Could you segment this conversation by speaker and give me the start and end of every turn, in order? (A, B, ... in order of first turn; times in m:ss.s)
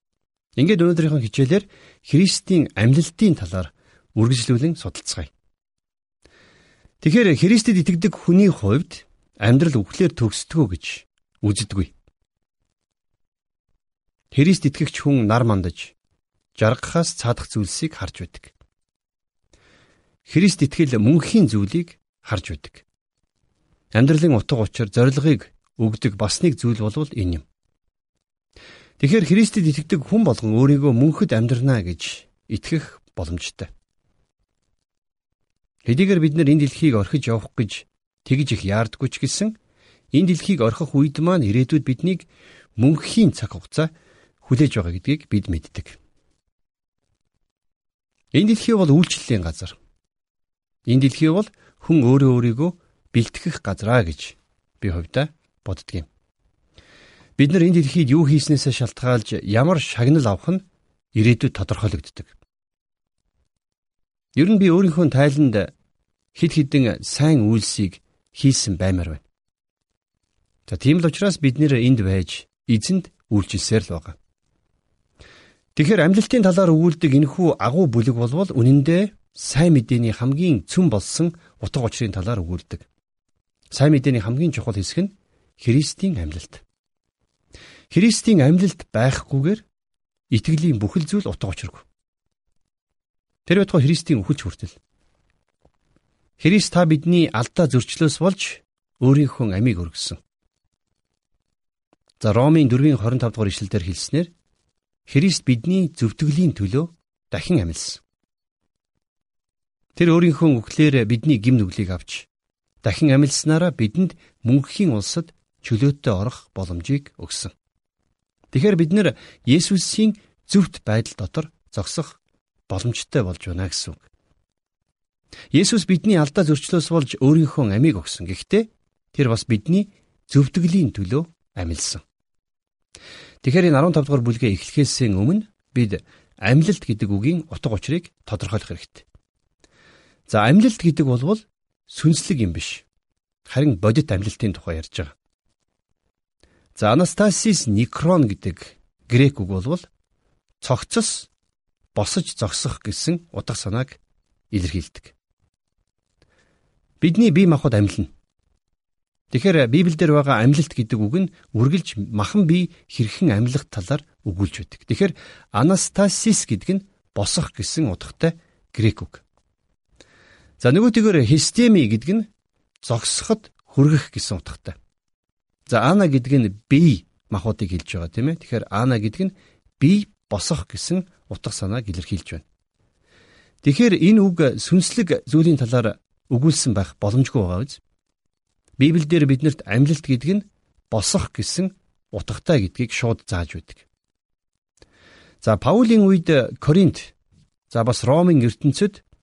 0:00.6-0:05.3 A
0:07.0-0:11.9 A
0:14.3-0:15.9 A
0:16.6-0:18.5 A
0:20.3-0:22.8 A
0:23.9-0:27.4 A
0:29.0-0:33.7 A
0:35.8-0:39.6 A
0:40.1-0:42.2 A
0:42.8-0:43.9 A
0:44.4-0:46.0 A
0:48.3-0:49.8 A
0:50.9-0:56.1 A
0:57.4-1:02.3 A
1:04.4-1:05.7 A
1:06.4-1:09.2 A
1:10.7-1:14.2 A
1:15.8-1:22.8 A
1:23.7-1:26.6 A
1:27.9-1:29.6 A
1:30.3-1:31.8 A
1:33.5-1:34.8 A
1:36.4-1:40.2 A
1:42.2-1:44.3 A
1:45.1-1:48.0 A
1:50.0-1:52.3 A
1:52.8-1:57.5 A
1:58.5-2:02.2 A
2:02.7-2:04.0 A
2:05.5-2:12.0 A
2:13.4-2:19.0 A
2:20.3-2:22.8 A
2:23.5-2:25.1 A
2:26.8-2:29.9 A
2:30.6-2:31.3 A
2:31.9-2:34.0 A
2:34.5-2:35.1 A
2:37.0-2:38.1 A
2:39.3-2:49.2 A
2:50.6-2:52.3 A
2:52.8-2:54.8 A
2:55.7-3:02.4 A
3:03.6-3:07.8 A
3:08.8-3:13.8 A
3:15.4-3:17.1 A
3:17.7-3:19.0 A